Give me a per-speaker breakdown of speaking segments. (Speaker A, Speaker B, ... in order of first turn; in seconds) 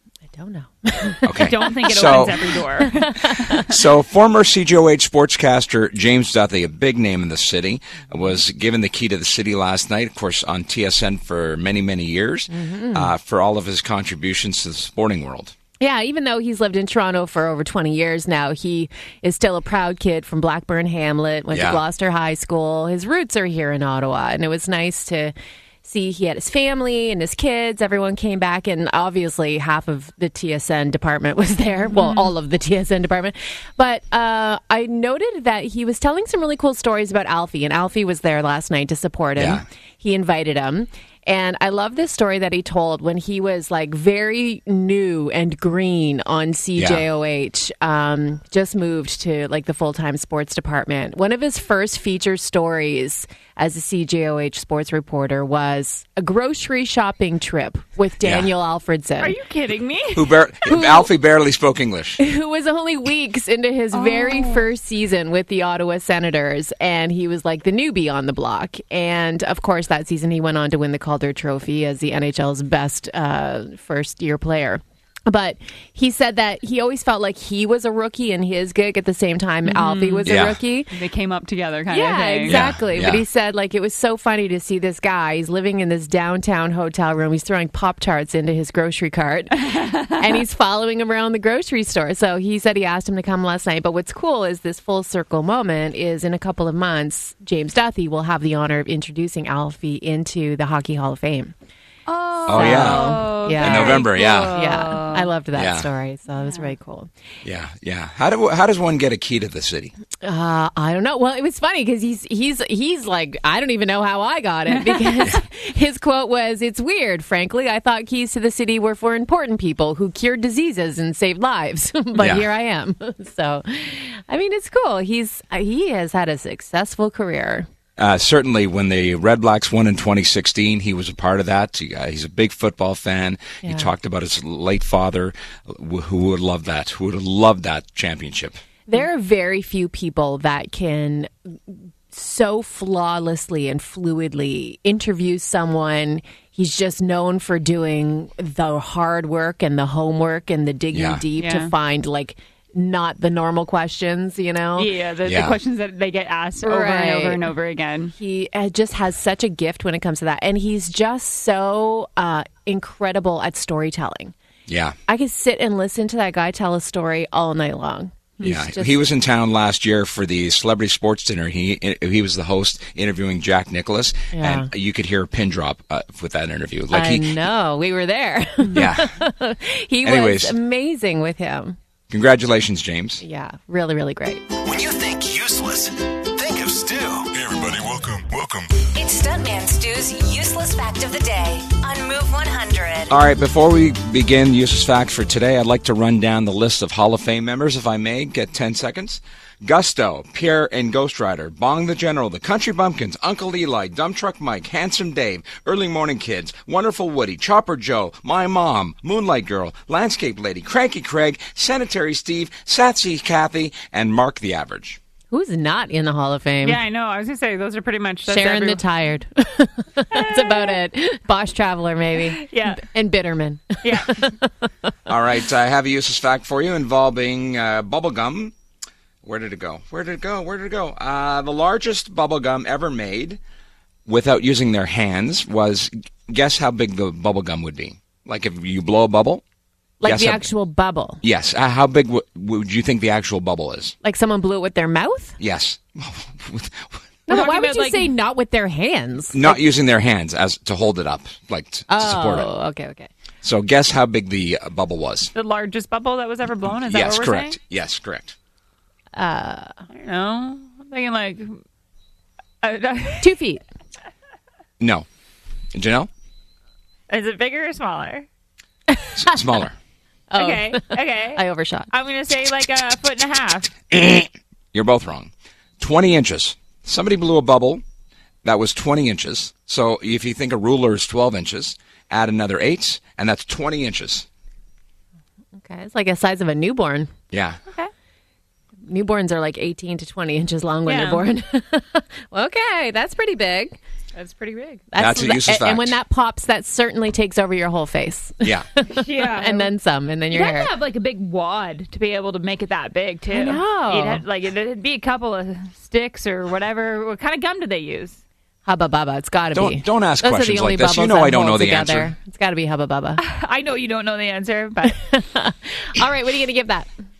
Speaker A: 0.3-3.6, 12.5-13.1, 15.8-59.3, 60.7-61.1, 62.2-80.9, 81.9-101.5, 102.5-107.1, 110.2-127.7, 133.6-133.9, 138.9-154.9, 156.6-157.5, 158.1-164.3, 165.1-169.0, 174.3-174.7, 176.9-181.8, 183.2-184.4, 215.3-216.8, 218.3-224.3, 240.0-241.2, 244.0-245.4, 247.3-249.6, 251.9-253.1, 259.1-259.8, 263.2-263.6, 268.9-269.4, 270.3-271.9, 285.6-287.1, 288.8-293.8, 294.9-300.7, 303.3-304.2, 308.6-313.2, 314.9-316.9
Speaker B: 1.2-2.5, 3.6-15.5, 21.5-21.8, 39.4-39.6, 46.8-47.0, 58.2-58.5, 60.1-62.2, 80.2-80.6, 82.5-83.2, 102.5-104.5, 105.5-105.9, 107.4-109.9, 122.1-122.5, 128.0-138.6, 150.9-151.2, 155.2-155.6, 164.7-165.0, 168.4-177.4, 178.7-179.2, 180.0-180.6, 182.1-183.2, 193.1-215.0, 225.1-228.5, 229.2-233.4, 234.1-239.4, 240.0-240.4, 241.2-243.9, 245.4-247.1, 249.3-252.5, 253.4-255.3, 256.9-258.4, 264.8-265.1, 265.7-266.1, 269.1-269.8, 273.9-277.8, 278.4-284.3, 287.3-287.6, 295.0-296.0, 298.4-298.7, 309.5-312.1
Speaker C: 1.4-3.7, 31.9-32.3, 59.2-60.7, 63.9-64.7, 79.6-80.3, 80.9-82.6, 89.7-90.1, 102.1-105.3, 106.4-106.7, 151.4-151.7, 154.8-158.1, 216.6-218.8, 220.1-220.7, 222.3-222.8, 223.8-224.2, 247.3-248.1, 255.3-257.6, 259.9-261.6, 262.6-263.3, 267.1-268.3, 270.4-273.7, 290.8-291.3, 294.1-294.8, 298.9-299.7, 300.3-308.2, 313.2-315.0
Speaker D: 184.6-188.7
Speaker E: 188.9-193.1